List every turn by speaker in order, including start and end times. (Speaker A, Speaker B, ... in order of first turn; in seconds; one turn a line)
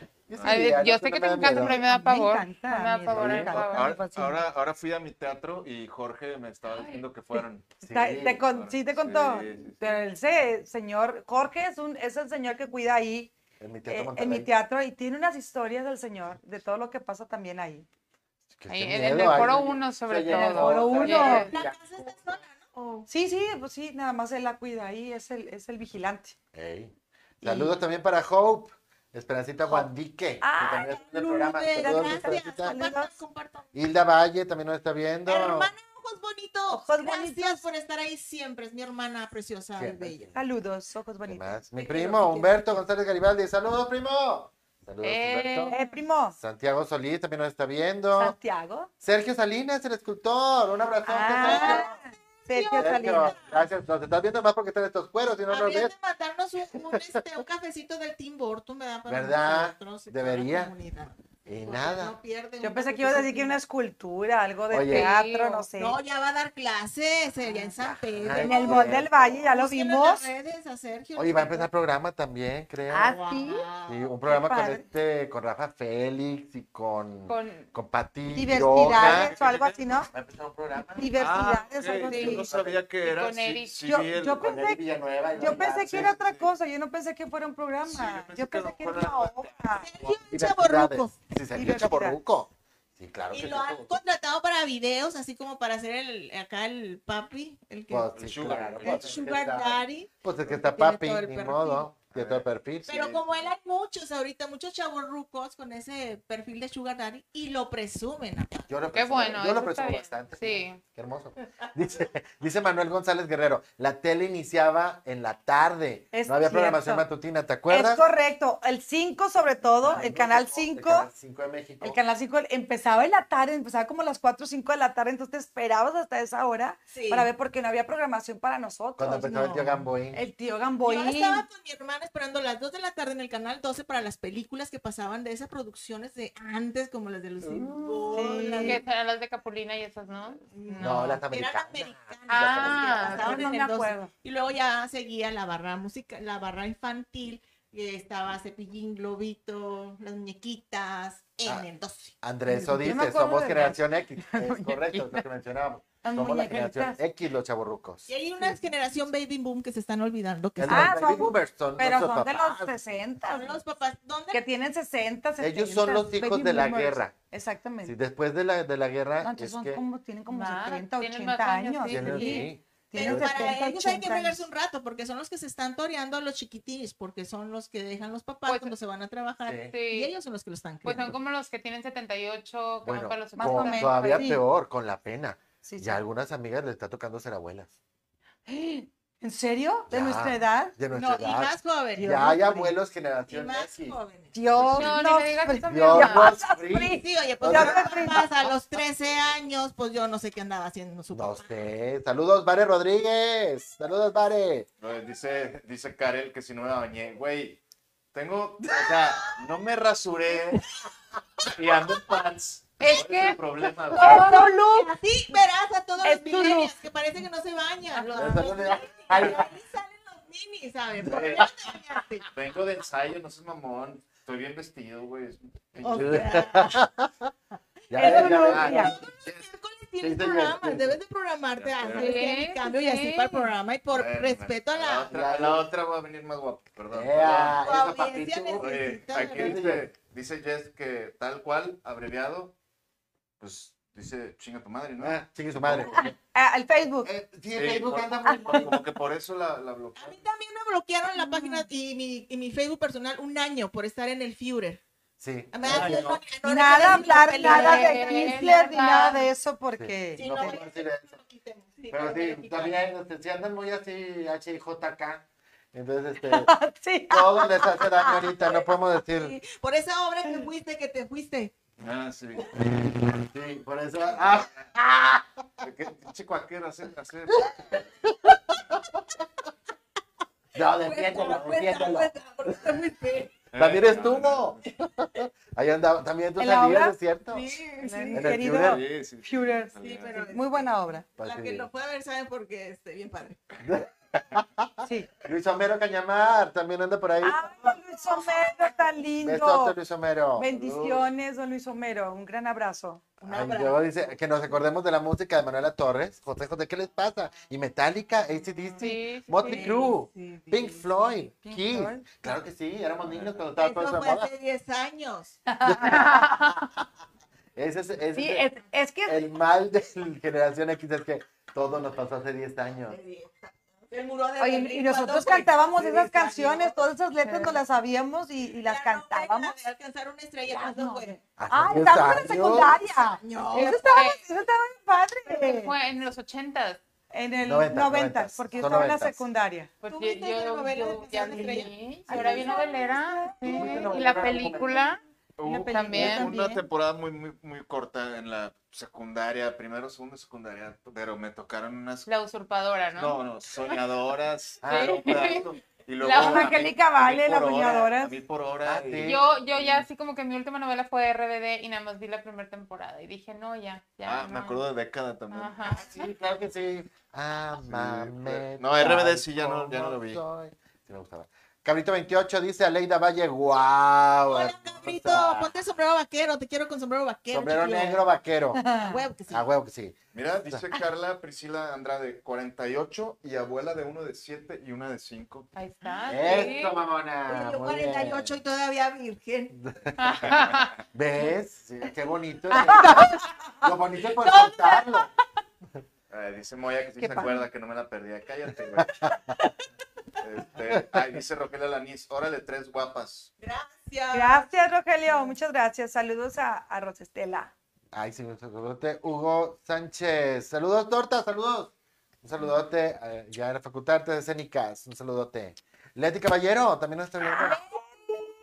Speaker A: 0.3-1.8
Speaker B: 0.3-0.8
Speaker C: 0.4-3.9
Speaker D: 1.4-4.4
Speaker B: 3.1-9.9
Speaker C: 6.7-7.0
Speaker D: 7.4-13.3
Speaker A: 7.8-8.4
Speaker A: 13.6-14.5
Speaker D: 13.9-17.9
Speaker A: 18.6-22.4
Speaker C: 18.7-21.6
Speaker D: 20.3-21.5
Speaker E: 21.0-23.1
Speaker D: 23.1-26.4
Speaker A: 26.5-32.8
Speaker D: 27.4-27.7
Speaker D: 30.4-31.0
Speaker E: 30.8-33.7
Speaker D: 31.8-33.2
Speaker A: 33.7-35.7
Speaker E: 35.3-40.3
Speaker D: 36.7-37.6
Speaker A: 39.8-40.4
Speaker D: 40.4-41.6
Speaker A: 41.3-45.8
Speaker E: 41.8-42.7
Speaker C: 45.0-45.9
Speaker D: 45.7-46.4
Speaker A: 46.4-48.4
Speaker D: 48.1-48.9
Speaker A: 49.0-51.9
Speaker D: 51.0-53.4
Speaker E: 51.3-53.6
Speaker A: 52.8-55.9
Speaker E: 55.5-63.6
Speaker A: 56.9-57.2
Speaker A: 59.1-60.7
Speaker A: 61.5-62.2
Speaker D: 62.6-66.0
Speaker A: 64.7-65.1
Speaker C: 64.9-65.7
Speaker E: 65.8-71.7
Speaker A: 67.8-69.1
Speaker D: 68.3-70.3
Speaker A: 71.2-73.2
Speaker D: 72.9-73.7
Speaker E: 73.0-74.1
Speaker A: 73.9-79.4
Speaker D: 74.2-74.8
Speaker C: 77.3-77.7
Speaker D: 78.3-80.1
Speaker B: 78.7-79.8
Speaker A: 80.1-81.1
Speaker D: 81.0-82.5
Speaker B: 81.2-84.5
Speaker C: 82.1-84.0
Speaker A: 82.3-82.8
Speaker D: 83.8-84.8
Speaker A: 84.4-86.2
Speaker D: 85.4-89.9
Speaker B: 85.4-86.5
Speaker B: 87.8-89.7
Speaker E: 89.8-91.2
Speaker A: 90.3-94.0
Speaker D: 91.5-92.2
Speaker E: 93.3-98.2
Speaker A: 97.9-103.2
Speaker B: 98.1-99.3
Speaker E: 98.8-101.9
Speaker B: 102.1-102.5
Speaker E: 102.9-108.7
Speaker A: 108.7-118.0
Speaker C: 108.9-110.8
Speaker D: 116.1-117.1
Speaker D: 117.7-121.1
Speaker A: 119.8-122.0
Speaker D: 121.8-131.4
Speaker E: 126.9-127.3
Speaker A: 129.0-130.2
Speaker E: 129.1-129.8
Speaker E: 130.8-138.8
Speaker D: 138.1-138.8
Speaker C: 138.6-141.2
Speaker E: 140.5-152.2
Speaker A: 140.8-143.4
Speaker C: 142.3-143.4
Speaker D: 143.1-144.1
Speaker A: 152.2-158.1
Speaker D: 152.5-155.2
Speaker D: 156.0-157.0
Speaker E: 158.1-161.0
Speaker A: 160.6-162.8
Speaker D: 160.7-163.6
Speaker E: 163.2-164.4
Speaker D: 164.3-168.0
Speaker A: 165.4-167.1
Speaker A: 167.8-169.8
Speaker D: 169.2-174.5
Speaker C: 170.3-172.5
Speaker A: 171.9-173.6
Speaker E: 172.9-181.2
Speaker C: 178.5-178.7
Speaker A: 179.5-179.7
Speaker C: 179.7-180.1
Speaker C: 180.8-184.3
Speaker A: 182.8-187.7
Speaker D: 183.4-184.4
Speaker D: 185.6-186.0
Speaker D: 188.5-190.8
Speaker A: 189.9-194.0
Speaker E: 190.9-192.3
Speaker D: 192.0-192.7
Speaker E: 193.3-194.3
Speaker D: 194.3-198.2
Speaker A: 194.6-194.9
Speaker C: 194.7-196.4
Speaker A: 195.7-198.3
Speaker E: 196.8-201.5
Speaker A: 201.1-204.7
Speaker B: 204.8-207.6
Speaker B: 208.1-210.7
Speaker B: 211.4-214.3
Speaker A: 211.7-212.2
Speaker C: 212.8-214.5
Speaker E: 213.9-222.3
Speaker D: 213.9-214.9
Speaker D: 216.0-216.8
Speaker A: 218.2-219.5
Speaker B: 221.1-221.5
Speaker A: 221.1-221.5
Speaker B: 222.3-226.4
Speaker E: 225.8-226.8
Speaker A: 225.8-227.3
Speaker A: 227.9-229.4
Speaker E: 227.9-235.1
Speaker D: 228.0-228.9
Speaker B: 228.3-228.9
Speaker A: 230.0-231.0
Speaker B: 231.6-232.2
Speaker C: 231.9-233.5
Speaker B: 233.9-237.7
Speaker A: 235.1-235.7
Speaker A: 236.9-239.8
Speaker E: 237.4-239.7
Speaker B: 238.6-242.6
Speaker B: 243.4-246.1
Speaker A: 245.0-246.1
Speaker D: 245.9-247.1
Speaker A: 247.0-248.8
Speaker B: 247.5-250.2
Speaker D: 248.2-248.7
Speaker E: 250.0-254.8
Speaker D: 251.2-251.7
Speaker A: 255.2-256.2
Speaker E: 255.5-259.1
Speaker D: 255.7-260.6
Speaker C: 257.4-259.3
Speaker A: 259.8-261.2
Speaker E: 260.2-262.8
Speaker A: 261.9-266.5
Speaker D: 266.2-268.6
Speaker A: 267.1-269.4
Speaker E: 269.1-271.5
Speaker B: 271.8-272.8
Speaker A: 272.7-275.3
Speaker B: 274.2-274.7
Speaker B: 275.6-277.9
Speaker A: 277.4-279.0
Speaker A: 280.5-282.8
Speaker E: 280.8-283.4
Speaker B: 283.5-284.6
Speaker A: 283.6-287.5
Speaker D: 286.4-287.0
Speaker E: 287.3-288.3
Speaker D: 287.8-291.0
Speaker A: 288.1-288.8
Speaker B: 288.3-290.3
Speaker E: 289.8-293.4
Speaker A: 291.2-291.7
Speaker A: 293.6-297.8
Speaker D: 297.2-299.8
Speaker E: 298.1-298.8
Speaker A: 299.2-301.1
Speaker D: 300.4-303.0
Speaker E: 303.2-304.1
Speaker A: 303.2-314.3
Speaker C: 308.8-309.8
Speaker E: 309.4-311.0
Speaker D: 311.4-312.1
Speaker E: 313.6-315.4
Speaker D: 315.5-316.4
Speaker A: 315.6-316.7
Speaker C: 316.1-316.4
Speaker A: 317.6-318.5
Speaker D: 318.1-319.3
Speaker A: 319.1-323.0
Speaker E: 322.9-326.8
Speaker D: 324.4-329.5
Speaker E: 328.6-331.2
Speaker D: 330.5-335.7
Speaker A: 331.4-332.8
Speaker E: 333.0-333.8
Speaker C: 333.5-334.2
Speaker C: 335.3-336.8
Speaker D: 337.1-339.7
Speaker A: 337.4-339.2
Speaker C: 339.8-345.0
Speaker E: 339.9-342.7
Speaker D: 342.1-343.9
Speaker A: 343.4-344.8
Speaker E: 343.5-343.9
Speaker B: 345.4-352.1
Speaker D: 345.4-346.6
Speaker C: 345.7-346.3
Speaker C: 352.1-353.8
Speaker B: 352.9-359.8
Speaker A: 354.6-355.5
Speaker C: 354.6-355.5
Speaker C: 356.0-356.5
Speaker D: 356.1-358.2
Speaker A: 358.6-359.2
Speaker C: 359.0-364.6
Speaker B: 364.0-365.6
Speaker C: 365.3-366.1
Speaker A: 365.7-375.5
Speaker B: 367.6-370.2
Speaker E: 374.3-378.0
Speaker A: 377.3-378.6
Speaker D: 378.6-379.0
Speaker E: 378.7-379.5
Speaker A: 379.3-380.0
Speaker B: 380.1-385.5
Speaker C: 385.5-386.8
Speaker A: 386.1-388.4
Speaker E: 386.1-386.6
Speaker E: 387.3-389.6
Speaker A: 389.6-390.0
Speaker C: 390.0-390.7
Speaker A: 390.9-395.1
Speaker D: 392.7-393.2
Speaker E: 392.8-393.1
Speaker E: 394.1-395.1
Speaker B: 396.1-399.1
Speaker D: 397.0-397.4
Speaker A: 398.8-399.2
Speaker B: 400.2-403.3
Speaker A: 400.7-401.0
Speaker E: 403.4-404.5
Speaker D: 404.1-407.5
Speaker A: 407.9-417.6
Speaker E: 417.3-418.3